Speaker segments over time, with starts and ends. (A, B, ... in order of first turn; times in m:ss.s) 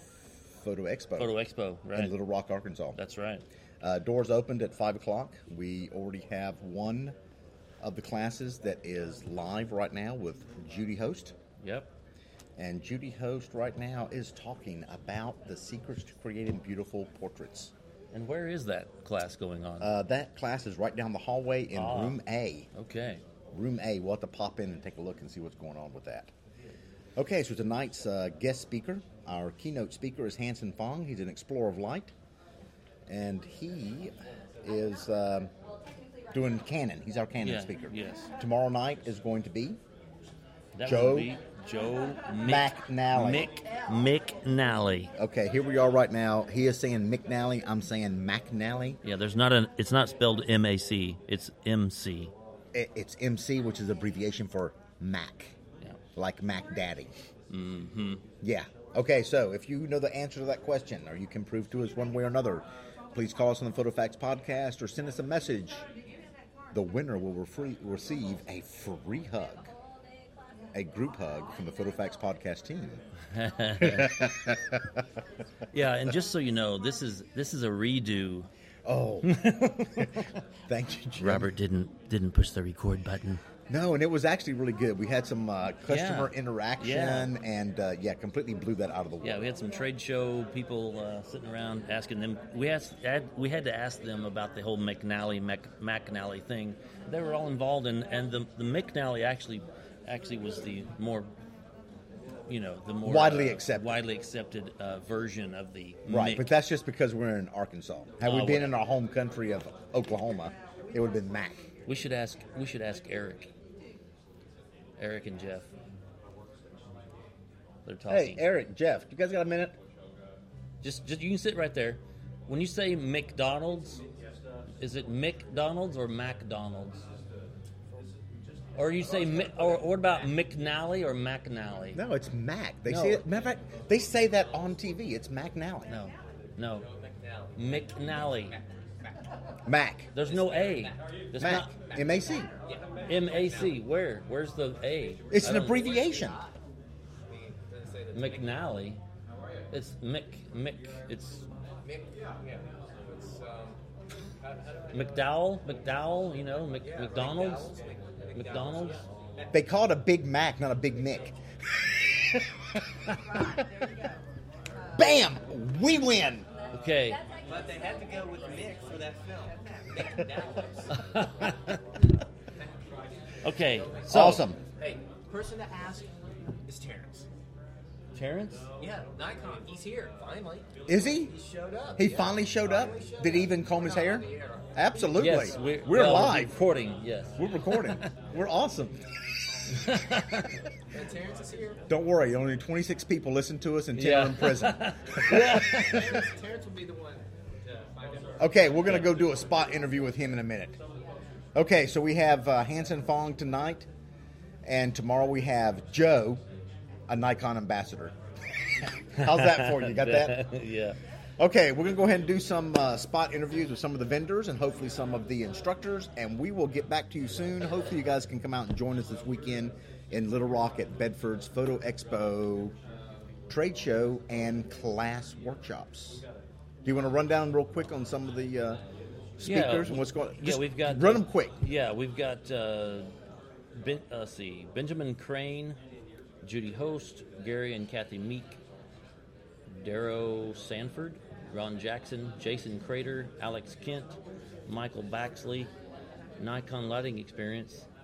0:00.6-0:01.4 A
0:01.2-0:02.1 B
0:01.9-0:03.0 A
0:03.0-0:03.4 B
0:03.8-0:07.1 A
0:07.8-0:11.3 A
0:11.6-0:11.9 B
0:12.6-0:17.7 A
0:18.1-0:19.9 B
0:19.8-0:22.7 A
0:21.7-0:22.2 B
0:22.7-0:23.2 B
0:23.5-0:26.3 A
0:27.2-0:32.1 A
0:33.1-0:35.5 A
0:36.3-0:39.8 A
0:37.4-0:38.3 B
0:40.7-0:45.1 B
0:40.8-0:41.3 A
0:42.4-0:43.5 A
0:45.2-0:49.0 A
0:49.0-0:52.3 B
0:52.7-0:55.6 A
0:56.2-0:57.1 A
0:57.5-0:58.2 B
0:58.4-1:05.8 A
1:06.7-1:09.7 A
1:10.7-1:13.0 A
1:13.3-1:14.3 B
1:13.8-1:15.0 A
1:15.7-1:18.5 B
1:18.8-1:19.3 A
1:19.2-1:20.3 B
1:19.9-1:21.5 A
1:21.2-1:23.4 B
1:23.7-1:29.4 A
1:25.9-1:27.3 B
1:29.2-1:41.3 B
1:42.5-1:46.5 B
1:43.0-1:44.0 A
1:46.1-1:51.6 A
1:48.2-1:48.7 B
1:51.8-1:53.5 B
1:55.0-1:55.7 B
1:57.8-1:58.5 B
1:58.1-1:59.8 A
2:00.8-2:04.0 B
2:04.8-2:07.0 B
2:08.8-2:12.0 B
2:11.9-2:15.9 A
2:12.8-2:13.2 B
2:15.9-2:16.9 B
2:17.6-2:18.6 B
2:19.7-2:20.1 A
2:20.1-2:21.7 B
2:21.4-2:22.5 A
2:23.1-2:26.0 B
2:25.3-2:26.4 A
2:26.1-2:26.4 C
2:27.3-2:28.3 C
2:28.1-2:29.0 B
2:29.7-2:31.5 B
2:31.8-2:33.8 C
2:34.9-2:37.7 B
2:37.0-2:38.9 C
2:38.3-2:39.0 B
2:39.5-2:43.7 A
2:44.9-2:46.5 A
2:46.7-2:47.2 B
2:47.4-2:50.9 C
2:50.9-2:51.8 B
2:53.4-2:54.5 B
2:54.1-2:54.6 A
2:54.8-2:56.1 C
2:56.6-2:57.3 C
2:58.1-2:58.6 B
2:58.8-3:00.7 C
3:00.9-3:01.4 A
3:01.3-3:04.7 C
3:02.0-3:06.6 A
3:05.1-3:08.1 B
3:07.4-3:09.0 A
3:09.7-3:10.5 B
3:10.9-3:11.8 C
3:11.9-3:16.2 A
3:13.9-3:16.2 B
3:15.8-3:18.0 C
3:18.4-3:20.8 A
3:21.5-3:23.9 A
3:24.6-3:26.4 A
3:27.1-3:28.1 A
3:29.2-3:31.0 B
3:29.2-3:30.4 A
3:31.4-3:42.7 A
3:43.5-3:46.2 A
3:46.8-3:48.8 A
3:49.4-3:51.5 A
3:49.4-3:53.1 B
3:53.7-3:55.8 B
3:56.4-3:58.6 B
3:59.7-4:05.7 B
4:06.4-4:07.9 B